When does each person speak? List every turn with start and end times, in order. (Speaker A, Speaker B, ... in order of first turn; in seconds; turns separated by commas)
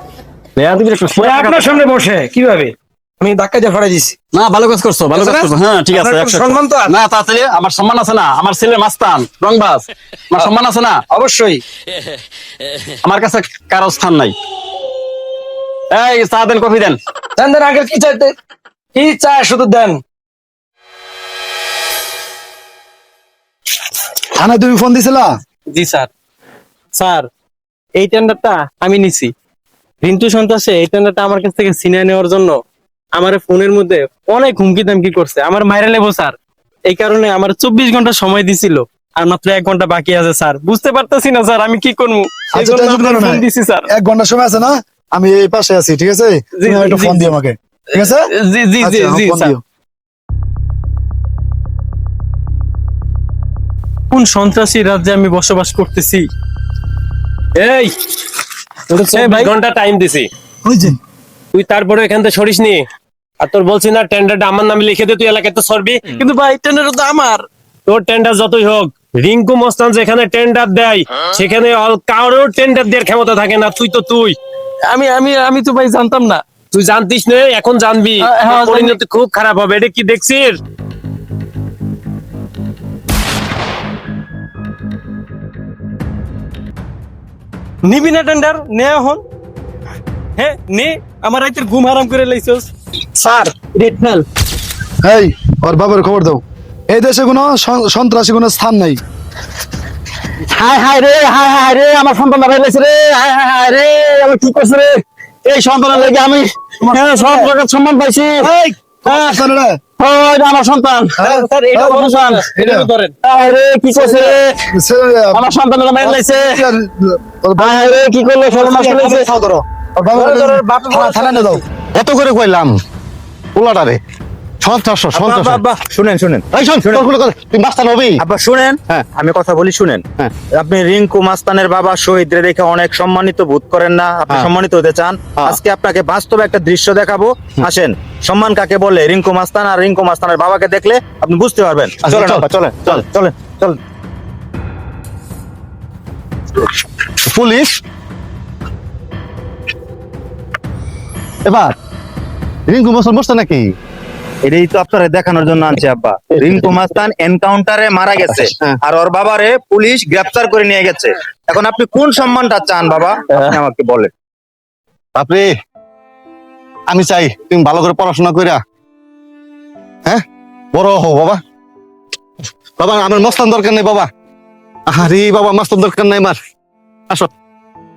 Speaker A: 0.6-1.8, Speaker B: 1.1-4.2, Speaker A: 4.3-11.0, Speaker B: 5.1-6.9, Speaker B: 11.1-11.6, Speaker A: 13.0-14.3, Speaker A: 15.9-17.0, Speaker B: 17.4-18.3, Speaker B: 18.9-20.0, Speaker C: 24.4-25.3, Speaker D: 25.7-26.1, Speaker D: 26.9-27.3, Speaker D: 27.9-29.3, Speaker D: 30.0-32.6, Speaker D: 33.1-36.4, Speaker D: 36.9-43.9, Speaker C: 42.5-48.3, Speaker D: 46.6-47.3, Speaker D: 48.1-49.5, Speaker C: 48.8-49.6, Speaker D: 54.1-56.3, Speaker E: 57.6-57.9, Speaker E: 58.9-60.3, Speaker D: 59.1-59.5, Speaker E: 61.5-62.8, Speaker E: 63.4-66.0, Speaker D: 66.1-67.5, Speaker E: 67.9-74.4, Speaker D: 74.9-76.4, Speaker E: 76.7-80.6, Speaker D: 78.2-79.0, Speaker D: 87.8-89.2, Speaker D: 90.4-94.2, Speaker C: 95.0-99.0, Speaker A: 100.5-108.5, Speaker D: 107.1-107.5, Speaker C: 109.0-109.8, Speaker A: 109.1-109.4, Speaker A: 110.0-111.4, Speaker C: 111.2-112.9, Speaker D: 111.2-113.1, Speaker A: 112.0-112.5, Speaker A: 113.2-114.6, Speaker C: 114.1-118.0, Speaker A: 115.3-116.7, Speaker A: 117.6-119.3, Speaker B: 118.5-119.2, Speaker C: 118.8-121.6, Speaker D: 120.2-121.5, Speaker F: 122.0-122.8, Speaker F: 123.5-124.0, Speaker F: 124.6-125.6, Speaker G: 125.1-127.1, Speaker F: 126.5-128.2, Speaker G: 128.2-143.8, Speaker F: 142.0-143.0, Speaker F: 147.3-147.8, Speaker F: 151.4-151.7, Speaker F: 152.7-153.7, Speaker G: 154.4-164.1, Speaker F: 165.2-165.5, Speaker F: 166.9-168.6, Speaker F: 170.1-171.4, Speaker F: 172.8-174.1, Speaker F: 174.9-176.4